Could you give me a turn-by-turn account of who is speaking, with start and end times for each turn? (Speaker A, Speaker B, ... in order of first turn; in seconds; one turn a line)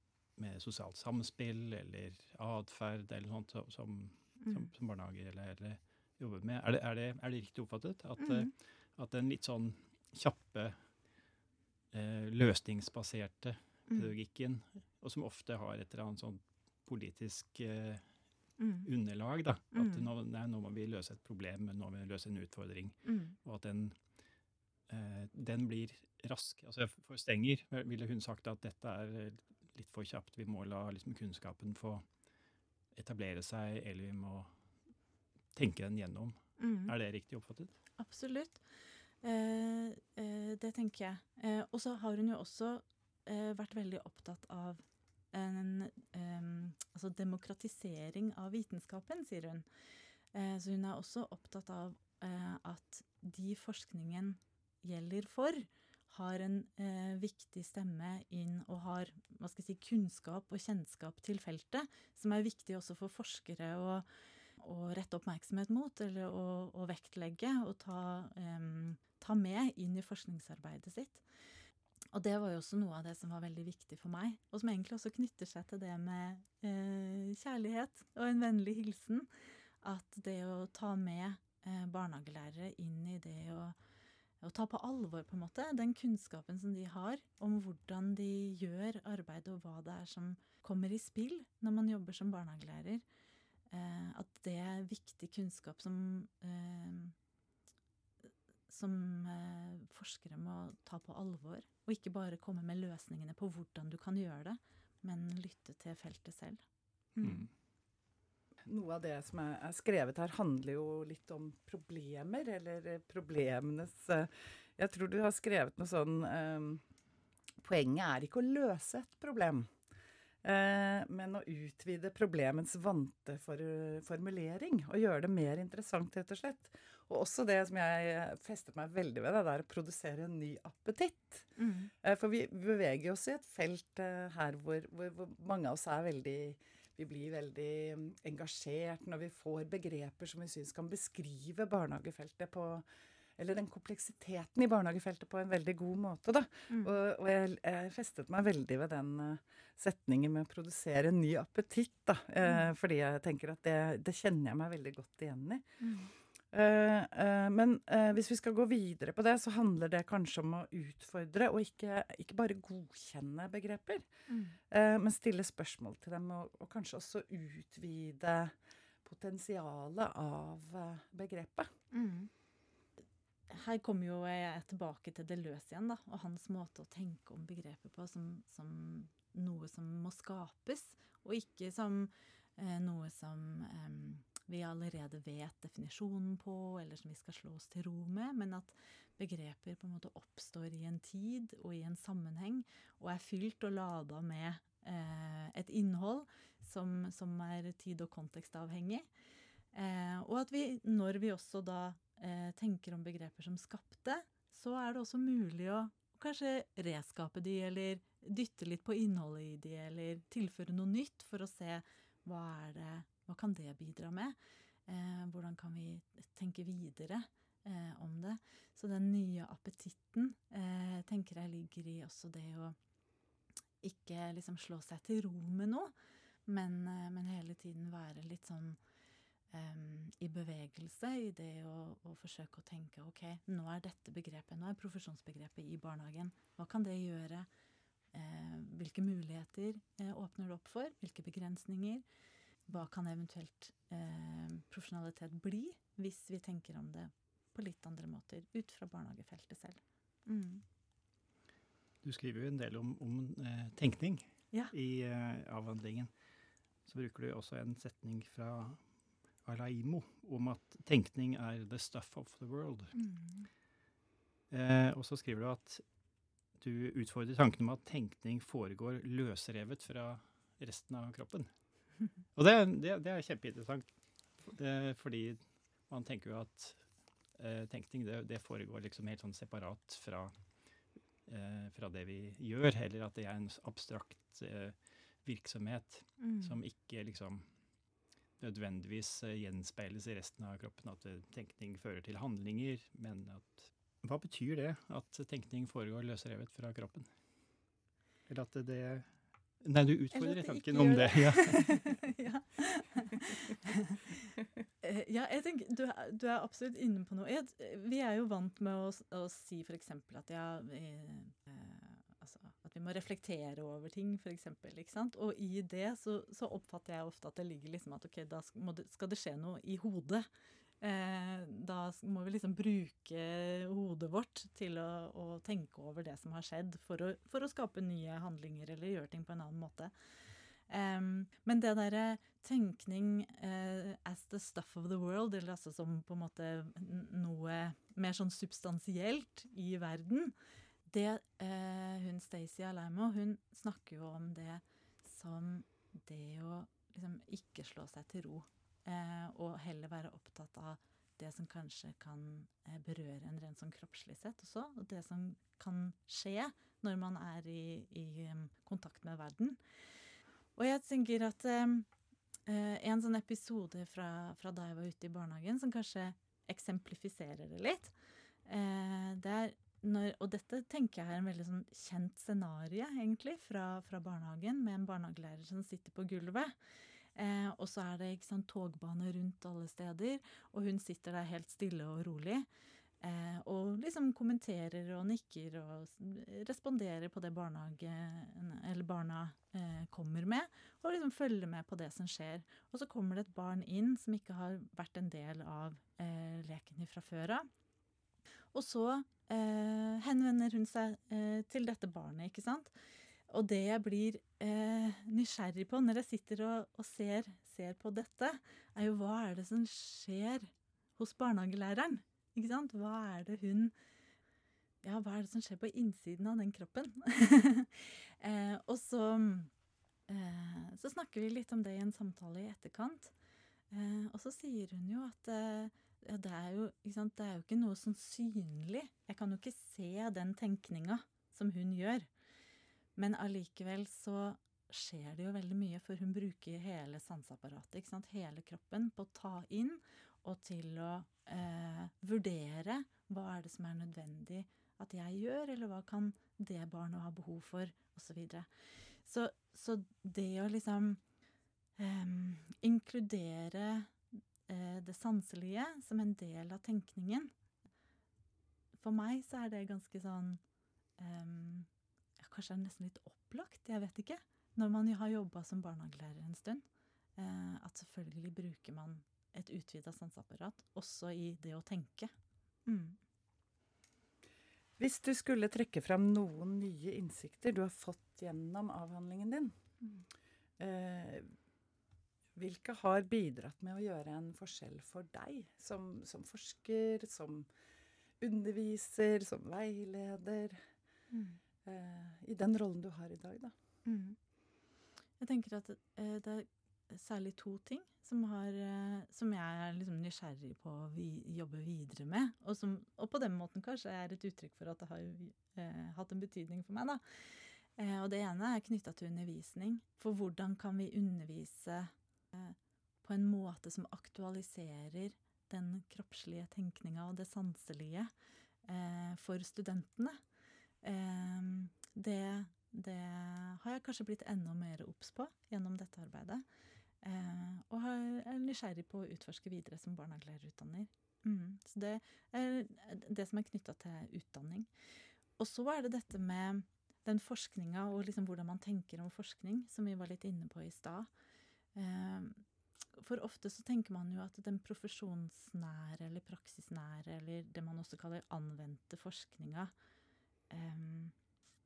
Speaker A: 0.4-10.8
Speaker B: 4.4-4.7
Speaker B: 8.2-8.5
Speaker A: 11.9-18.1
Speaker B: 18.6-18.9
Speaker A: 18.8-24.0
Speaker B: 19.7-20.1
Speaker B: 23.1-23.4
Speaker A: 24.9-32.0
Speaker A: 33.0-34.5
Speaker A: 35.5-37.8
Speaker B: 36.6-36.9
Speaker B: 38.0-38.6
Speaker B: 39.2-49.7
Speaker B: 50.3-64.1
Speaker B: 64.6-71.2
Speaker B: 72.1-79.3
Speaker B: 79.8-83.8
Speaker B: 84.4-93.0
Speaker B: 93.7-97.2
Speaker B: 98.7-106.6
Speaker B: 107.2-107.5
Speaker A: 107.2-107.5
Speaker C: 108.7-116.8
Speaker C: 117.6-119.7
Speaker C: 120.4-142.9
Speaker B: 131.6-131.9
Speaker C: 143.4-155.7
Speaker B: 155.8-156.1
Speaker C: 156.5-164.1
Speaker B: 164.3-164.6
Speaker C: 164.7-171.7
Speaker B: 171.9-172.3
Speaker B: 173.5-199.1
Speaker B: 199.7-214.4
Speaker B: 214.9-222.8
Speaker B: 223.8-225.9
Speaker B: 226.5-228.8
Speaker B: 229.5-237.5
Speaker B: 238.1-242.0
Speaker B: 242.7-250.6
Speaker A: 252.0-256.1
Speaker A: 256.9-258.8
Speaker A: 259.4-262.9
Speaker B: 262.9-263.5
Speaker A: 264.5-265.8
Speaker A: 266.6-271.5
Speaker A: 272.4-273.9
Speaker A: 274.4-276.8
Speaker A: 277.4-280.3
Speaker A: 281.3-287.5
Speaker B: 286.2-286.6
Speaker A: 288.4-297.1
Speaker A: 298.3-299.1
Speaker A: 299.6-301.9
Speaker B: 300.1-320.3
Speaker B: 320.8-329.9
Speaker B: 330.7-340.4
Speaker B: 340.9-359.6
Speaker B: 360.6-361.9
Speaker B: 362.5-367.9
Speaker B: 368.5-376.6
Speaker B: 377.2-382.5
Speaker B: 383.0-397.5
Speaker B: 398.5-402.7
Speaker B: 403.3-413.7
Speaker B: 414.8-419.5
Speaker B: 420.1-423.1
Speaker B: 423.7-432.1
Speaker B: 433.0-448.5
Speaker B: 449.0-451.0
Speaker B: 451.8-454.0
Speaker B: 454.5-457.3
Speaker B: 458.8-460.4
Speaker B: 461.0-461.7
Speaker B: 462.2-466.6
Speaker B: 467.2-472.1
Speaker B: 472.7-473.0
Speaker C: 474.8-479.5
Speaker C: 480.6-481.3
Speaker C: 482.4-487.5
Speaker C: 488.2-490.6
Speaker B: 491.1-491.4
Speaker C: 491.6-493.5
Speaker B: 493.9-494.2
Speaker B: 495.2-507.0
Speaker B: 507.8-518.1
Speaker B: 518.7-520.2
Speaker B: 520.8-526.4
Speaker B: 527.0-534.7
Speaker B: 535.4-541.1
Speaker B: 541.8-542.4
Speaker B: 543.0-549.7
Speaker B: 550.5-551.1